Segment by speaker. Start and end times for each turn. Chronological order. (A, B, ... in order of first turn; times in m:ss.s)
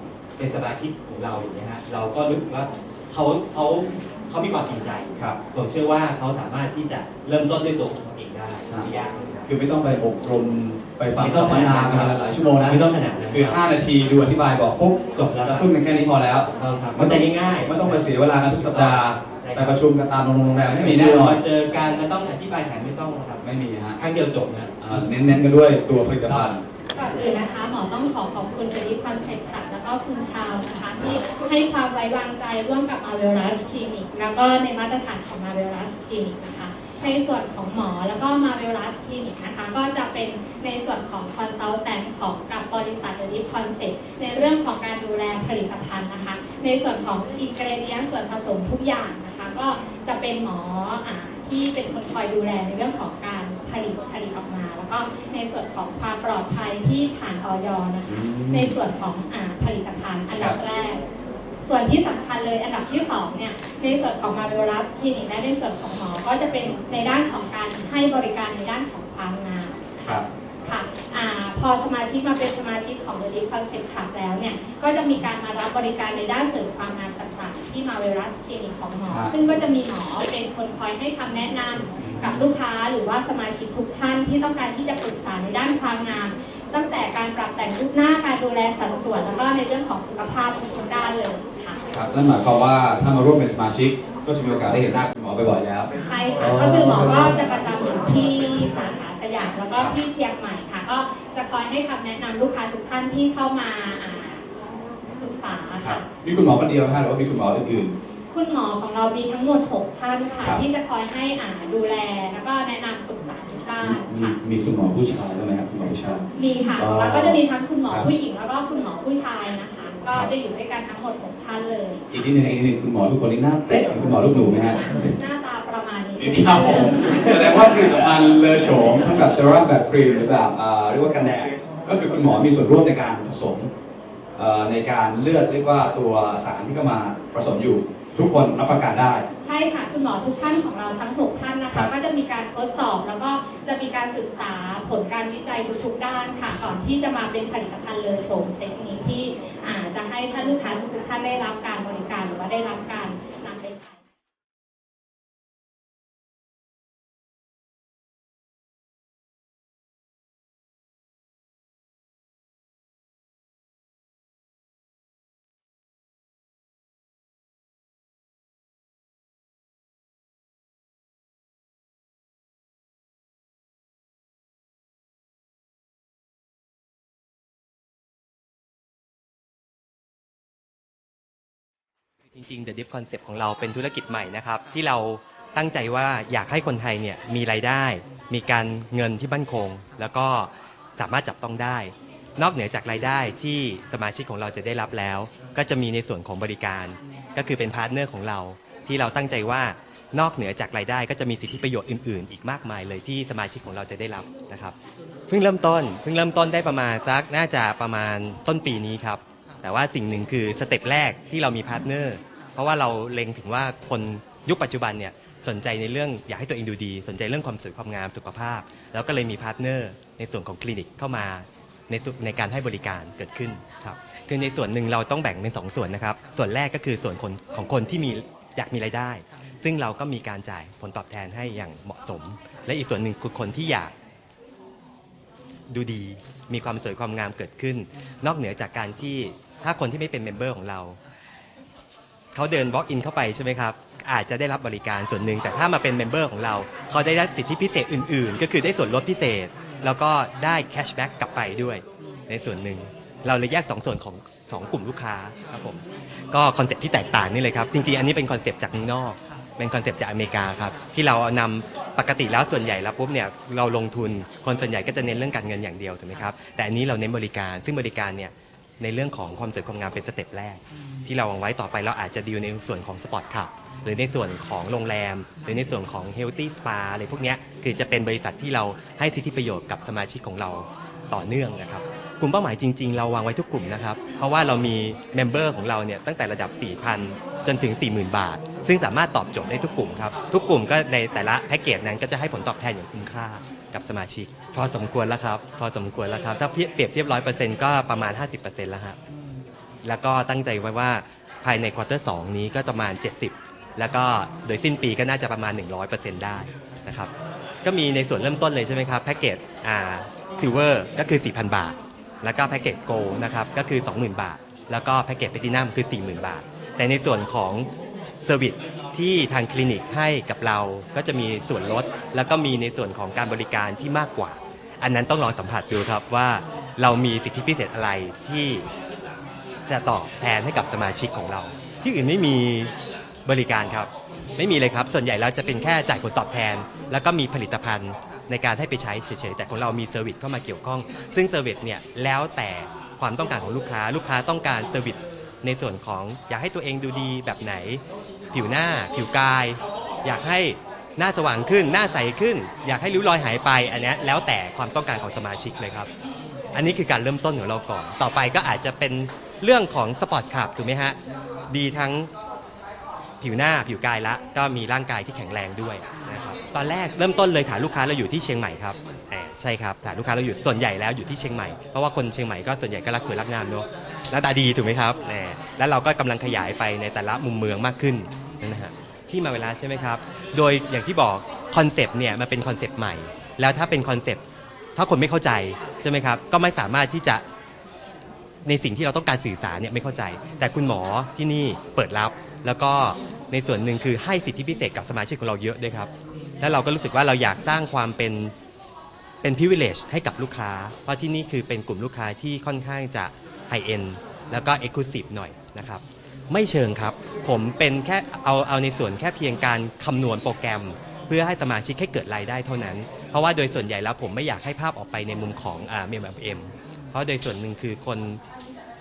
0:00.4-0:09.5 A
0:09.4-0:21.4 B
0:11.2-0:13.6 A
0:15.1-0:15.7 A
0:16.5-0:19.8 A
0:20.6-0:23.4 A
0:23.4-0:24.0 B
0:24.0-0:24.8 A
0:24.8-0:26.6 B
0:26.9-1:01.0 C
0:58.0-0:58.8 B
1:01.6-1:31.8 C
1:19.1-1:19.3 B
1:22.0-1:22.5 B
1:31.9-1:37.4 B
1:35.9-1:44.4 C
1:45.1-1:46.1 C
1:45.8-1:47.9 B
1:48.3-1:54.3 C
1:53.8-1:58.1 B
1:56.3-2:02.2 C
2:02.1-2:05.1 B
2:05.0-2:07.8 C
2:06.2-2:13.7 B
2:14.4-2:19.2 B
2:19.4-2:34.0 C
3:02.3-3:24.7 A
3:25.3-3:53.9 A
3:55.7-4:01.0 A
4:02.3-4:59.0 A
4:59.8-5:07.1 A
5:07.6-5:17.7 A
5:18.2-5:28.6 A
5:29.7-5:32.7 A
5:33.2-5:55.9 A
5:56.5-6:01.0 A
6:01.5-6:02.1 A
6:03.2-6:24.2 A
6:24.8-6:27.2 A
6:28.4-6:35.9 A
6:36.4-6:38.3 A
6:39.2-6:58.2 A